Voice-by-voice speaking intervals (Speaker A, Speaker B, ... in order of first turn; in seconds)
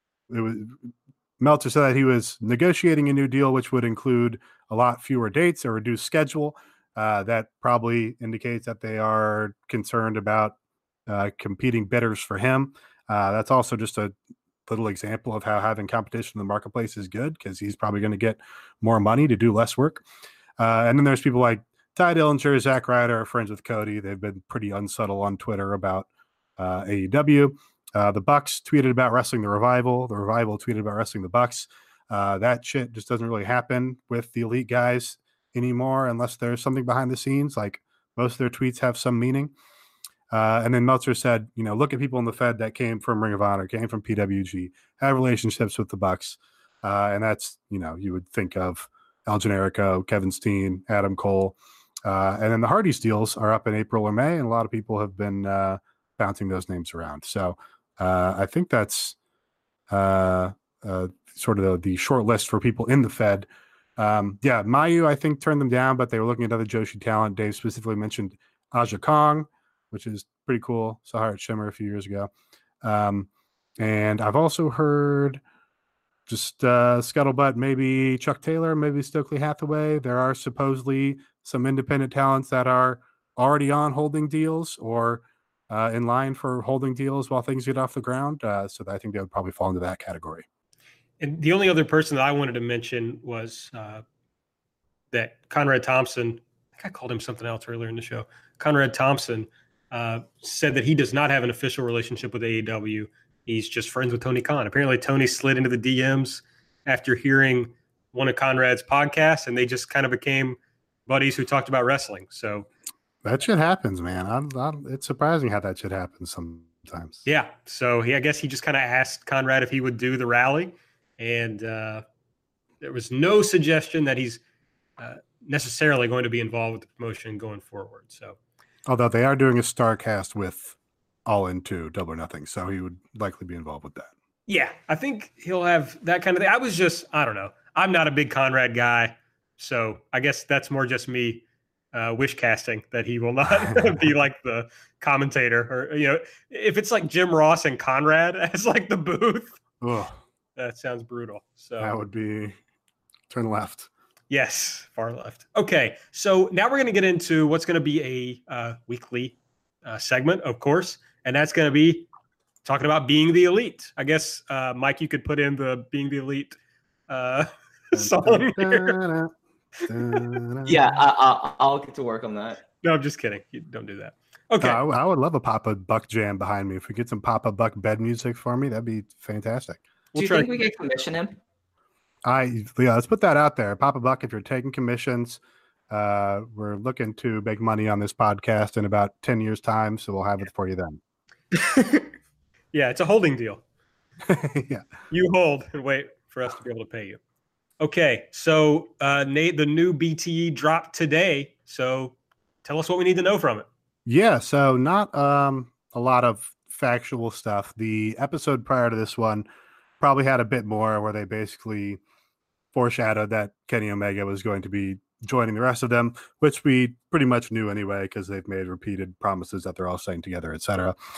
Speaker A: 0.3-10.6, 11.1-14.1, 14.7-20.1, 20.6-26.1, 26.6-39.5, 40.3-59.2, 59.9-63.5, 64.0-72.3, 72.8-73.3, 73.8-75.4, 76.3-90.5, 113.2-117.3, 128.9-130.8, 131.3-134.1, 149.8-150.2, 151.8-152.6, 153.3-153.9, 167.9-169.3, 169.9-170.8, 174.6-179.8, 182.3-191.0, 194.3-194.8, 204.1-209.4, 210.0-212.0, 212.7-220.9
Speaker B: 91.2-94.0, 95.1-112.7, 117.3-122.0, 122.8-124.4, 125.0-128.4, 134.5-149.6, 150.6-152.0, 154.3-162.1, 162.6-166.6, 167.1-169.0, 172.8-174.8, 180.1-180.5, 192.7-193.6, 195.1-197.2, 197.8-203.7
Speaker C: 170.7-172.6, 180.2-181.4